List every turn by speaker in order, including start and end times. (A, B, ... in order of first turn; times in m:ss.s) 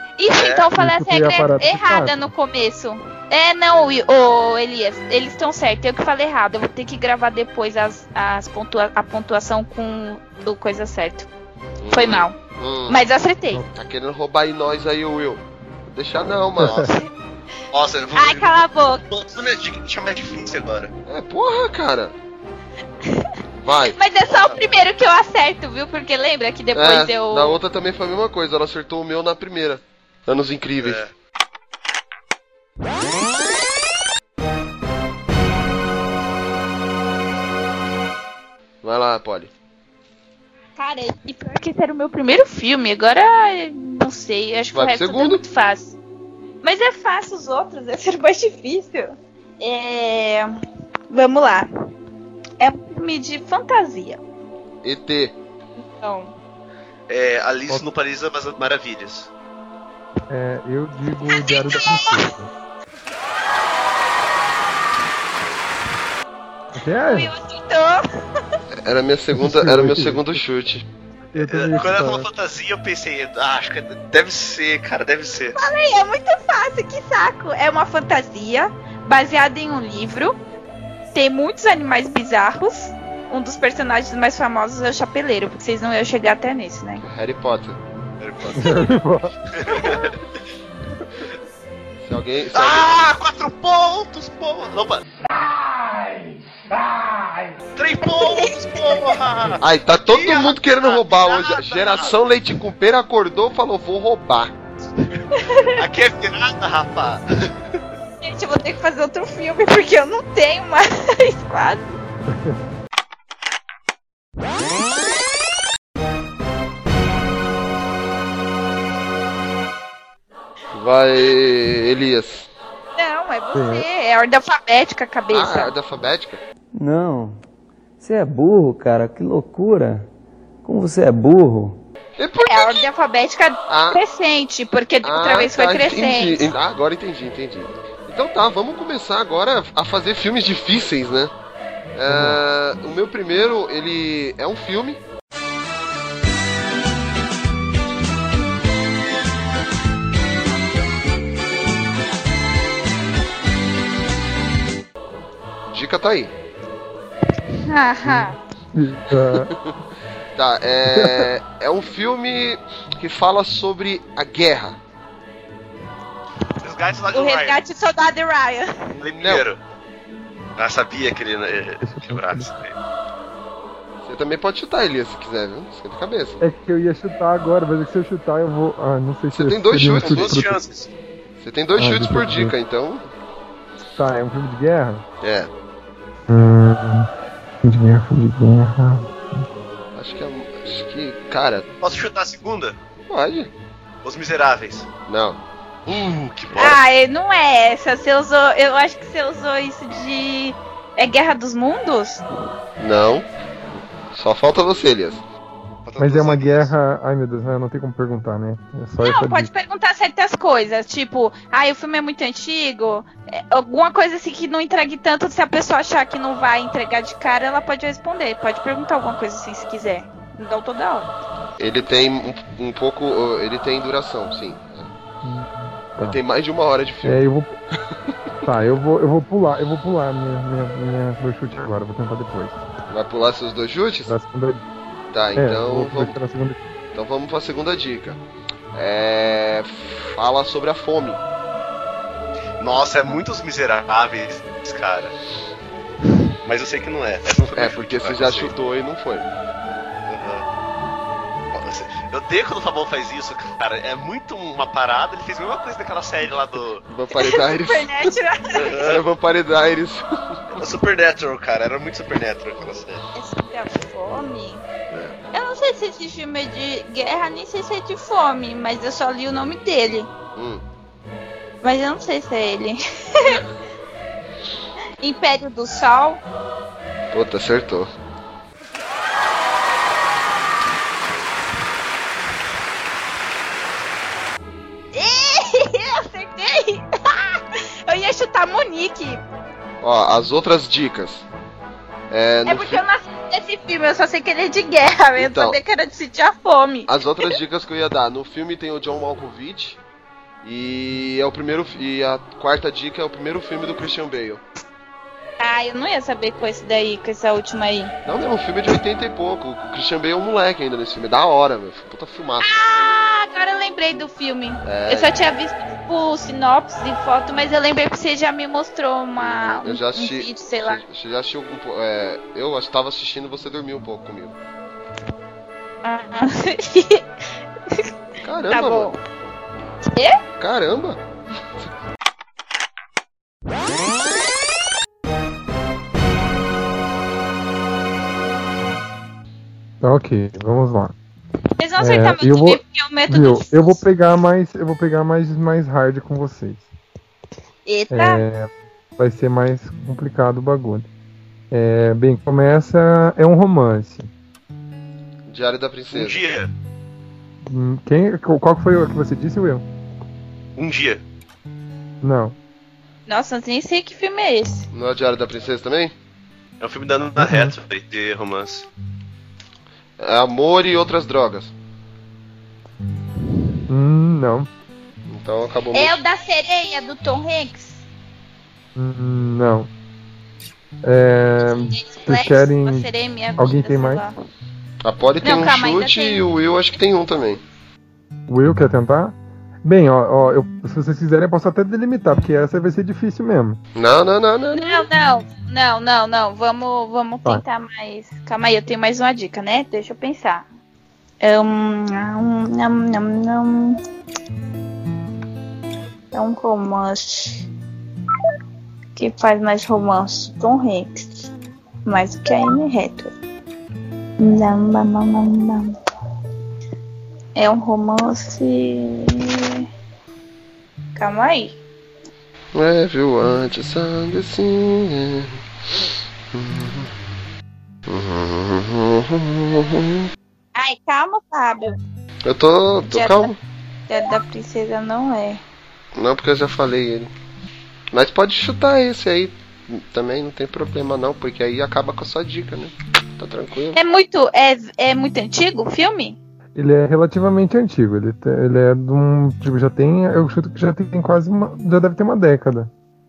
0:00.2-0:11.3 A
0:00.8-0:02.2 B
0:11.8-0:13.1 C
0:11.9-0:12.4 A
0:12.9-0:13.6 A
0:13.7-0:16.9 C
0:16.6-0:16.9 B
0:17.7-0:18.6 D
0:18.1-0:19.0 A
0:19.1-0:20.9 D
0:21.0-0:22.1 C
0:23.6-0:24.0 C
0:23.9-0:27.6 A
0:26.7-0:31.0 C
0:38.8-0:39.5 C
0:40.8-0:46.0 A
0:44.7-0:45.4 C
0:46.6-0:50.5 A
0:51.1-0:51.7 A
0:52.6-0:54.2 A
0:54.8-0:55.4 C
0:55.8-0:56.3 A
0:57.1-0:59.3 D
1:00.3-1:02.5 B
1:01.2-1:02.3 A
1:06.7-1:07.3 B
1:07.1-1:08.0 A
1:08.7-1:10.9 C
1:09.3-1:10.4 B
1:11.3-1:12.3 B
1:11.3-1:15.6 D
1:15.5-1:20.4 A
1:21.1-1:27.0 A
1:27.0-1:27.8 C
1:28.2-1:28.9 D
1:28.5-1:30.1 B
1:29.6-1:30.2 D
1:32.0-1:32.9 C
1:32.5-1:35.0 D
1:37.8-1:42.1 D
1:38.0-1:39.2 A
1:39.6-1:44.5 C
1:45.3-1:45.7 A
1:45.8-1:47.2 D
1:48.2-1:52.0 A
2:00.7-2:02.5 C
2:03.0-2:05.7 A
2:03.5-2:03.8 B
2:05.3-2:06.4 C
2:06.8-2:07.4 E
2:08.0-2:10.0 E
2:10.6-2:11.8 E
2:12.2-2:12.8 C
2:12.4-2:16.5 A
2:13.7-2:14.0 C
2:15.0-2:21.3 C
2:21.9-2:25.0 C
2:22.1-2:22.4 B
2:35.7-2:36.3 C
2:37.6-2:38.3 A
2:38.0-2:39.5 B
2:39.3-2:39.7 C
2:40.4-2:44.8 C
2:40.9-2:41.3 B
2:46.6-2:47.6 D
2:47.1-2:48.9 A
2:49.0-2:49.6 D
2:49.0-2:49.4 C
2:50.6-2:52.7 D
2:51.8-2:52.5 B
2:54.0-2:56.4 C
2:56.4-3:00.6 B
2:59.3-3:00.4 C
3:00.0-3:00.9 D
3:01.4-3:03.0 C
3:01.8-3:02.5 B
3:03.9-3:05.0 B
3:05.2-3:05.5 C
3:06.3-3:07.1 B
3:07.6-3:09.4 B
3:09.9-3:11.7 C
3:11.8-3:12.8 D
3:13.1-3:13.5 C
3:14.0-3:14.9 D
3:15.1-3:15.4 C
3:15.9-3:16.8 D
3:16.5-3:22.2 A
3:22.8-3:23.3 C
3:24.1-3:25.2 C
3:26.0-3:26.7 D
3:26.0-3:29.5 B
3:29.0-3:41.1 A
3:41.6-3:44.9 C
3:45.2-3:46.2 B
3:46.0-3:47.2 C
3:47.0-3:47.6 B
3:48.4-3:52.6 B
3:52.9-3:54.2 C
3:54.0-3:54.6 B
3:55.1-3:56.2 C
3:55.4-3:56.6 B
3:56.9-3:58.2 C
3:58.7-4:01.2 C
4:02.6-4:05.1 D
4:06.4-4:08.5 D
4:07.5-4:09.3 C
4:10.1-4:10.4 D
4:11.5-4:16.8 D
4:16.8-4:20.6 C
4:17.2-4:18.6 A
4:18.7-4:19.0 D
4:20.6-4:23.0 D
4:23.1-4:24.6 A
4:24.9-4:25.2 C
4:25.3-4:30.1 A
4:30.4-4:30.6 C
4:31.6-4:33.4 A
4:35.0-4:36.2 A
4:37.1-4:37.9 C
4:44.9-4:49.2 A
4:49.8-4:51.2 C
4:52.1-4:52.8 C
4:52.4-4:57.3 A
4:55.2-4:55.6 C
4:56.9-4:59.8 C
5:00.4-5:04.4 C
5:05.4-5:07.9 A
5:08.0-5:12.5 C
5:12.4-5:20.8 A
5:14.6-5:15.1 C
5:19.2-5:24.4 C
5:25.8-5:27.0 A
5:28.2-5:29.0 C
5:28.5-5:29.0 A
5:30.4-5:31.0 C
5:39.8-5:40.9 B
5:41.6-5:43.8 A
5:41.8-5:46.7 B
5:47.6-5:48.2 A
5:47.9-5:50.9 B
5:51.5-5:54.1 B
5:55.3-5:56.3 C
5:55.9-5:56.5 D
5:57.4-5:59.6 B
6:00.6-6:01.0 D
6:02.0-6:02.4 B
6:03.1-6:04.7 A
6:04.7-6:05.9 C
6:06.6-6:08.7 D
6:07.2-6:07.5 B
6:10.0-6:11.5 C
6:13.7-6:14.5 B
6:15.1-6:16.0 C
6:15.7-6:17.8 A
6:18.7-6:19.7 B
6:20.8-6:22.9 B
6:21.5-6:24.2 A
6:23.4-6:24.0 B
6:24.8-6:27.4 C
6:25.2-6:26.2 A
6:28.3-6:33.6 B
6:33.7-6:34.9 C
6:34.5-6:40.4 A
6:41.2-6:43.8 A
6:46.1-6:47.4 A
6:49.0-6:51.3 A
6:51.8-6:53.1 A
6:54.2-6:55.7 A
6:57.4-6:59.6 A
7:01.0-7:01.6 A
7:02.5-7:05.4 C
7:06.3-7:06.9 C
7:07.9-7:10.1 C
7:10.6-7:11.8 A
7:12.2-7:13.4 C
7:12.8-7:13.3 A
7:13.9-7:15.4 A
7:16.0-7:17.1 C
7:17.9-7:23.8 C
7:23.7-7:26.2 A
7:26.6-7:32.7 B